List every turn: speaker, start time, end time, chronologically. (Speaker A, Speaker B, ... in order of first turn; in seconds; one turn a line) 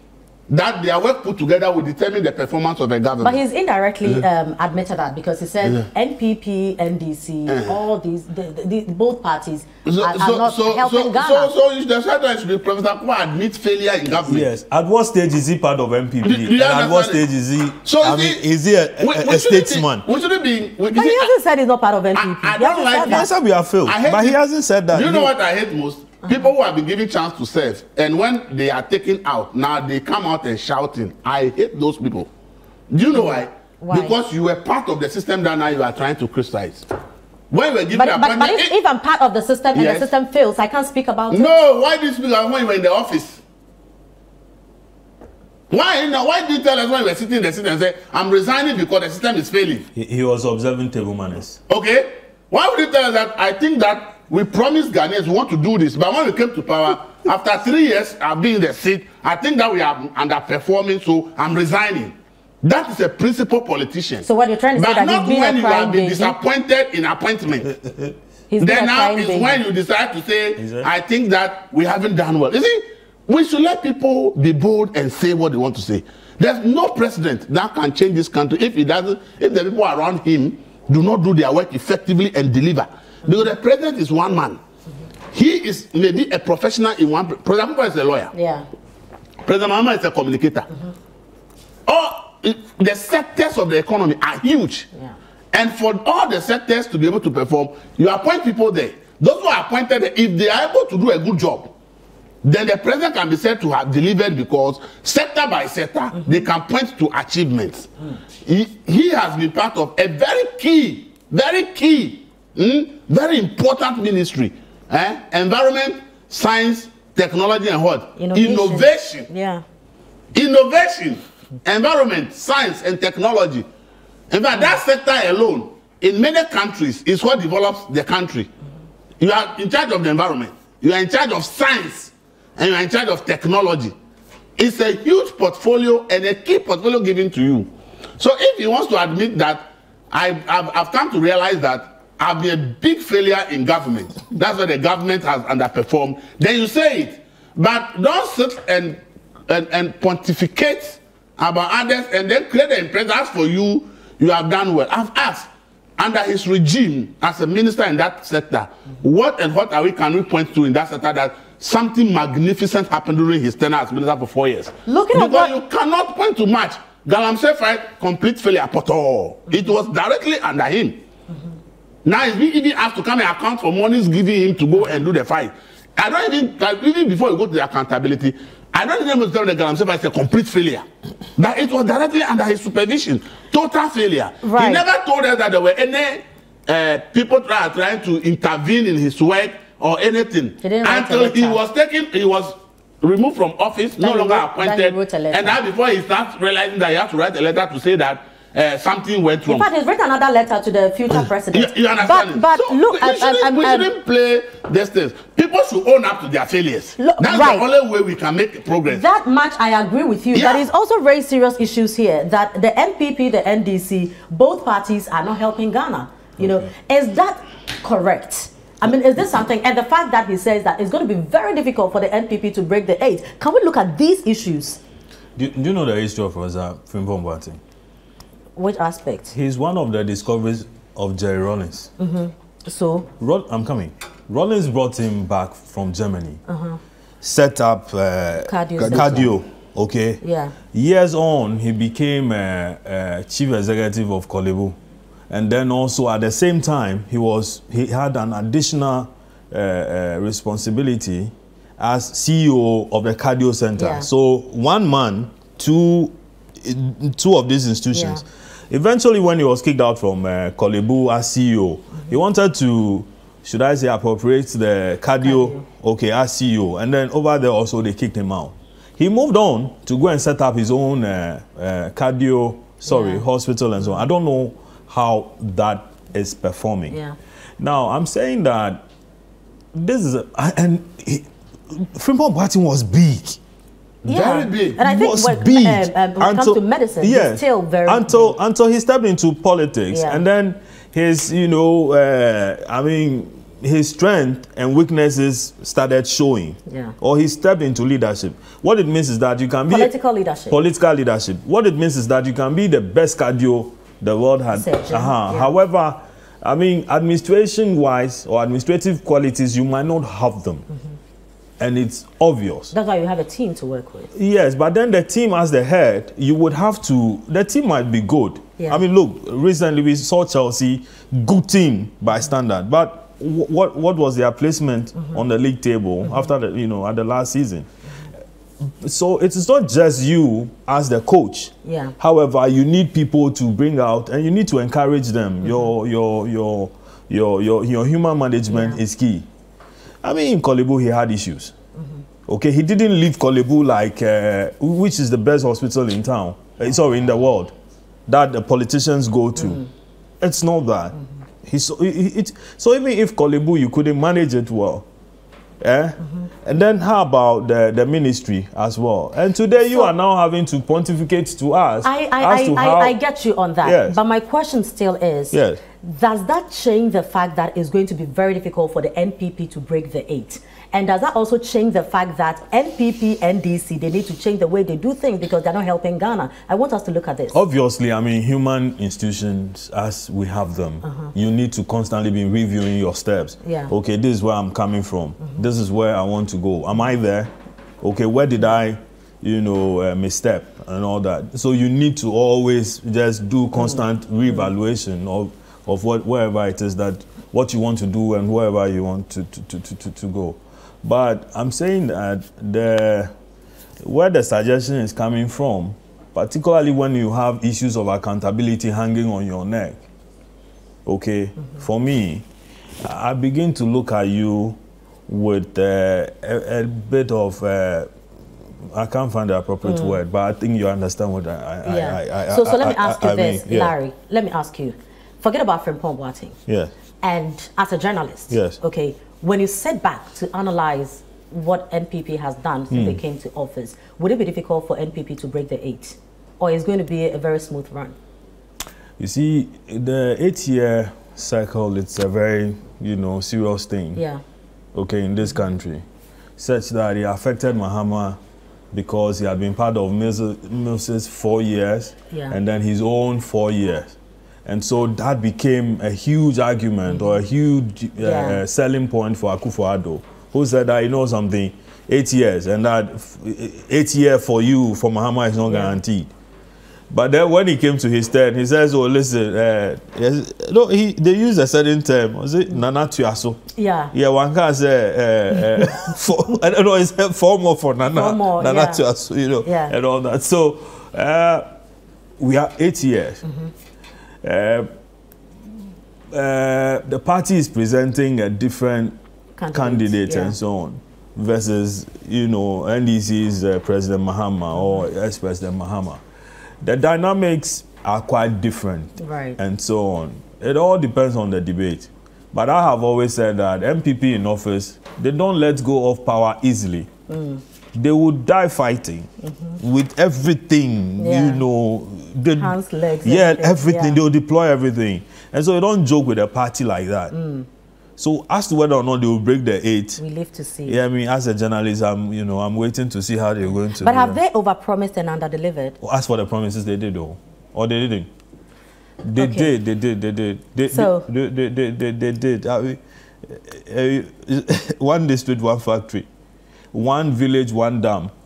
Speaker A: 0.5-3.4
Speaker B: 3.2-11.5
Speaker A: 7.5-7.8
Speaker A: 9.8-14.5
Speaker C: 14.2-20.0
Speaker A: 16.2-17.2
Speaker A: 17.8-18.4
Speaker A: 19.0-21.3
Speaker B: 20.9-23.3
Speaker A: 22.1-23.3
Speaker C: 23.0-25.3
Speaker A: 23.8-24.4
Speaker A: 24.9-32.3
Speaker A: 32.9-36.9
Speaker B: 33.1-34.2
Speaker A: 37.5-38.7
Speaker B: 37.9-41.5
Speaker A: 39.7-40.1
Speaker A: 41.3-43.4
Speaker A: 45.7-49.9
Speaker C: 49.9-51.6
Speaker A: 51.7-67.7
Speaker B: 64.2-66.3
Speaker C: 67.7-68.1
Speaker B: 68.5-69.6
Speaker A: 68.6-84.6
Speaker C: 70.6-70.9
Speaker A: 85.3-88.3
Speaker B: 88.3-88.7
Speaker A: 89.4-90.7
Speaker A: 91.8-94.9
Speaker A: 95.5-101.7
Speaker A: 102.4-107.9
Speaker A: 108.4-119.3
Speaker B: 118.2-119.6
Speaker A: 120.3-123.7
Speaker A: 124.3-128.5
Speaker A: 129.2-133.9
Speaker A: 134.6-171.0
Speaker B: 164.9-165.5
Speaker A: 172.0-180.8
Speaker A: 181.4-199.7
Speaker B: 184.4-184.8
Speaker B: 190.6-191.6
Speaker B: 194.0-195.6
Speaker B: 199.5-203.9
Speaker A: 201.5-209.0
Speaker B: 207.0-207.7
Speaker B: 208.9-224.8
Speaker A: 210.3-210.6
Speaker C: 216.4-216.7
Speaker C: 225.3-227.6
Speaker B: 228.6-229.3
Speaker C: 229.3-231.9
Speaker B: 232.0-233.1
Speaker C: 233.2-236.4
Speaker B: 236.5-236.8
Speaker C: 237.2-240.2
Speaker B: 238.4-239.3
Speaker A: 238.8-239.3
Speaker B: 240.2-240.5
Speaker C: 240.7-244.8
Speaker C: 245.3-276.9
Speaker B: 253.8-254.1
Speaker B: 257.9-258.2
Speaker B: 265.2-265.6
Speaker B: 272.9-273.2
Speaker B: 276.9-277.1
Speaker C: 277.6-278.8
Speaker C: 279.7-283.4
Speaker A: 284.0-284.8
Speaker B: 284.1-288.3
Speaker C: 284.8-299.9
Speaker B: 289.9-290.2
Speaker B: 296.7-296.9
Speaker B: 299.7-300.6
Speaker C: 300.5-310.6
Speaker B: 304.5-305.5
Speaker C: 311.6-312.7
Speaker B: 312.7-314.1
Speaker C: 314.1-327.7
Speaker C: 328.6-339.2
Speaker B: 331.6-331.9
Speaker B: 338.5-338.8
Speaker C: 340.0-341.5
Speaker C: 342.3-347.5
Speaker C: 348.1-349.6
Speaker B: 349.4-349.7
Speaker C: 350.2-354.9
Speaker C: 355.6-362.9
Speaker B: 359.6-359.9
Speaker B: 361.8-377.4
Speaker C: 363.6-364.0
Speaker C: 365.3-365.6
Speaker C: 377.3-403.1
Speaker B: 380.8-381.1
Speaker B: 383.4-383.7
Speaker C: 403.8-409.8
Speaker C: 410.8-412.2
Speaker C: 412.8-417.9
Speaker C: 418.7-423.7
Speaker B: 419.6-420.0
Speaker B: 421.6-426.4
Speaker C: 426.5-426.7
Speaker B: 427.0-437.9
Speaker C: 428.3-428.6
Speaker C: 432.7-433.0
Speaker C: 439.0-444.0
Speaker B: 443.9-444.2
Speaker C: 444.7-445.8
Speaker C: 446.4-448.2
Speaker C: 448.7-453.9
Speaker B: 452.1-452.4
Speaker C: 454.4-466.1
Speaker B: 456.9-457.2
Speaker B: 458.0-458.4
Speaker B: 465.5-465.8
Speaker C: 466.9-473.4
Speaker B: 473.6-473.9
Speaker C: 473.9-481.4
Speaker B: 477.9-478.8
Speaker B: 479.4-479.7
Speaker C: 482.2-483.2
Speaker B: 483.2-483.5
Speaker C: 484.2-484.7
Speaker C: 486.1-489.0
Speaker B: 489.4-490.4
Speaker C: 489.5-496.0
Speaker B: 494.5-494.9
Speaker C: 496.6-506.9
Speaker B: 499.0-499.4
Speaker B: 507.1-507.4
Speaker C: 507.7-509.1
Speaker B: 509.2-509.6
Speaker C: 509.6-517.1
Speaker B: 511.0-511.4
Speaker B: 512.4-514.0
Speaker B: 517.1-517.5
Speaker C: 518.0-520.0
Speaker B: 520.0-520.8
Speaker C: 520.6-524.2
Speaker B: 523.7-525.8
Speaker C: 525.8-528.1
Speaker C: 529.0-536.1
Speaker B: 529.1-529.5
Speaker B: 530.7-531.1
Speaker C: 536.7-538.1